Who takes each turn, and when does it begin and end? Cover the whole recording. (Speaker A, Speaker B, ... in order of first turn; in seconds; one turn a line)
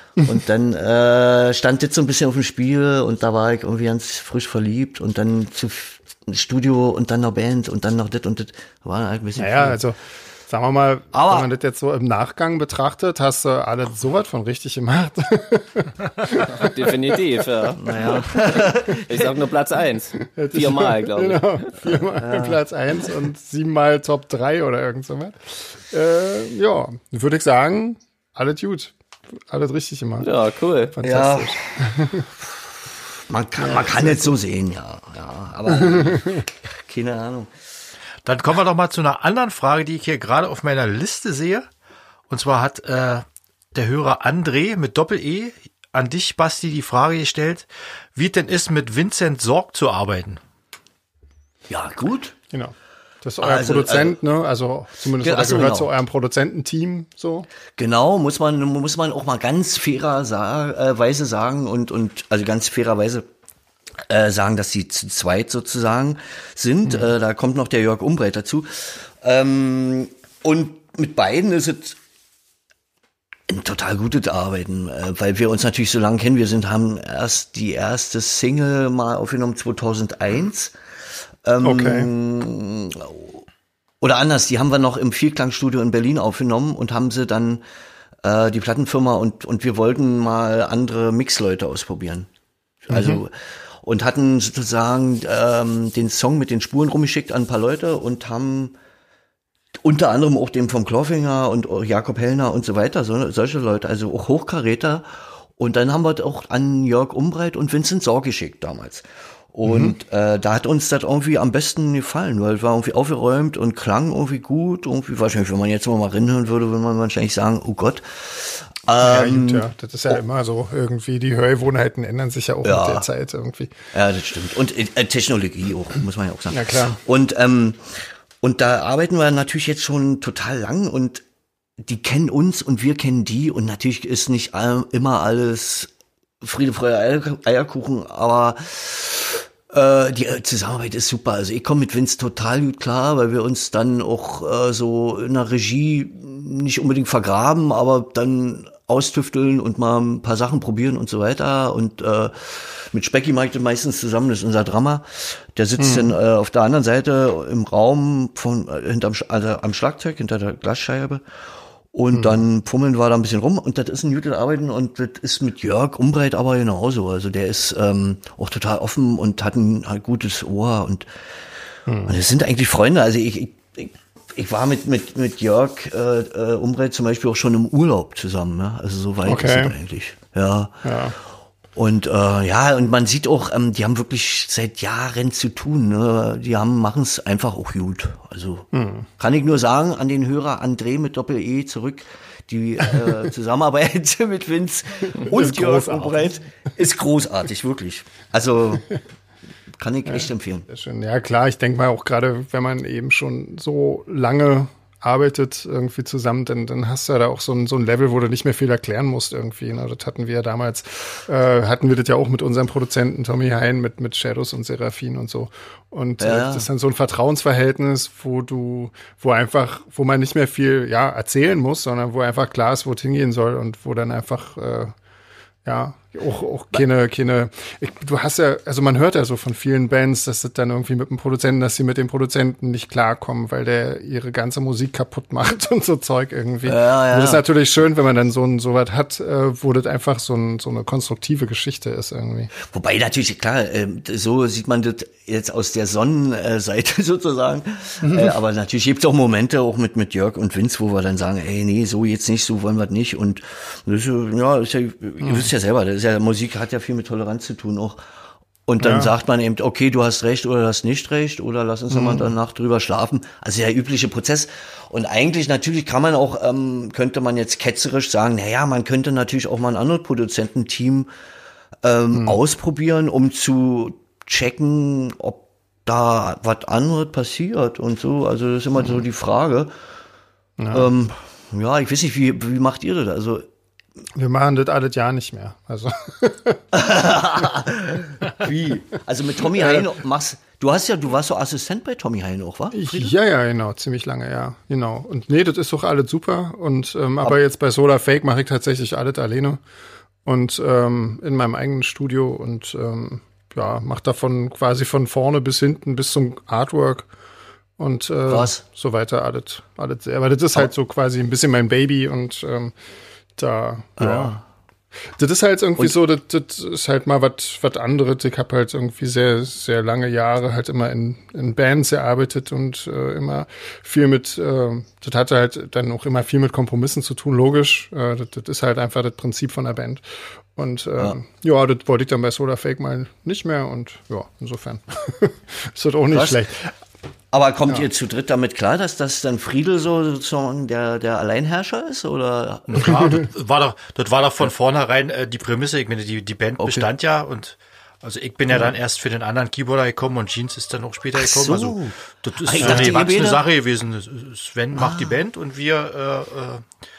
Speaker A: 0.2-9.8
Speaker B: 9.4-17.4
Speaker A: 11.1-11.5
Speaker C: 16.4-21.5
Speaker A: 17.8-19.4
Speaker B: 20.2-28.9
Speaker A: 22.1-22.6
Speaker B: 29.5-30.3
Speaker C: 30.2-30.9
Speaker B: 30.9-32.3
Speaker A: 31.0-31.6
Speaker A: 33.3-37.5
Speaker B: 33.6-34.3
Speaker B: 35.8-36.4
Speaker D: 38.2-41.7
Speaker D: 42.3-50.4
Speaker A: 51.7-52.3
Speaker B: 52.5-57.5
Speaker A: 53.4-54.2
Speaker A: 55.2-55.9
Speaker A: 57.8-63.2
Speaker A: 64.1-72.0
Speaker A: 73.5-80.7
Speaker A: 81.4-83.4
Speaker B: 81.6-82.1
Speaker A: 84.0-87.6
Speaker A: 88.2-92.3
Speaker A: 92.8-98.7
Speaker B: 92.9-93.2
Speaker A: 99.8-120.2
Speaker B: 109.7-110.0
Speaker B: 119.0-123.8
Speaker A: 122.6-123.1
Speaker A: 123.9-131.2
Speaker B: 126.5-127.0
Speaker A: 131.8-161.2
Speaker B: 155.8-156.2
Speaker A: 161.9-171.1
Speaker B: 171.9-172.2
Speaker A: 172.0-180.9
Speaker B: 179.2-179.7
Speaker B: 180.8-181.2
Speaker A: 181.7-198.9
Speaker B: 188.7-189.1
Speaker B: 195.2-196.3
Speaker A: 199.8-200.7
Speaker B: 200.1-224.9
Speaker A: 216.2-216.7
Speaker B: 225.6-242.5
Speaker A: 236.6-237.4
Speaker A: 242.6-258.0
Speaker B: 248.0-248.3
Speaker A: 258.7-271.1
Speaker B: 258.8-259.1
Speaker B: 261.9-262.3
Speaker A: 271.8-279.7
Speaker B: 280.6-280.9
Speaker A: 280.7-283.4
Speaker B: 284.1-286.6
Speaker A: 286.7-293.1
Speaker B: 292.7-299.6
Speaker B: 300.2-307.1
Speaker B: 307.8-312.7
Speaker A: 308.3-308.6
Speaker B: 313.4-314.4
Speaker A: 314.0-314.4
Speaker B: 315.2-330.0
Speaker B: 330.5-336.7
Speaker A: 336.1-336.4
Speaker A: 337.3-343.3
Speaker D: 342.7-356.6
Speaker B: 342.9-343.2
Speaker A: 346.6-346.9
Speaker A: 351.2-353.4
Speaker B: 352.6-353.0
Speaker A: 354.7-355.2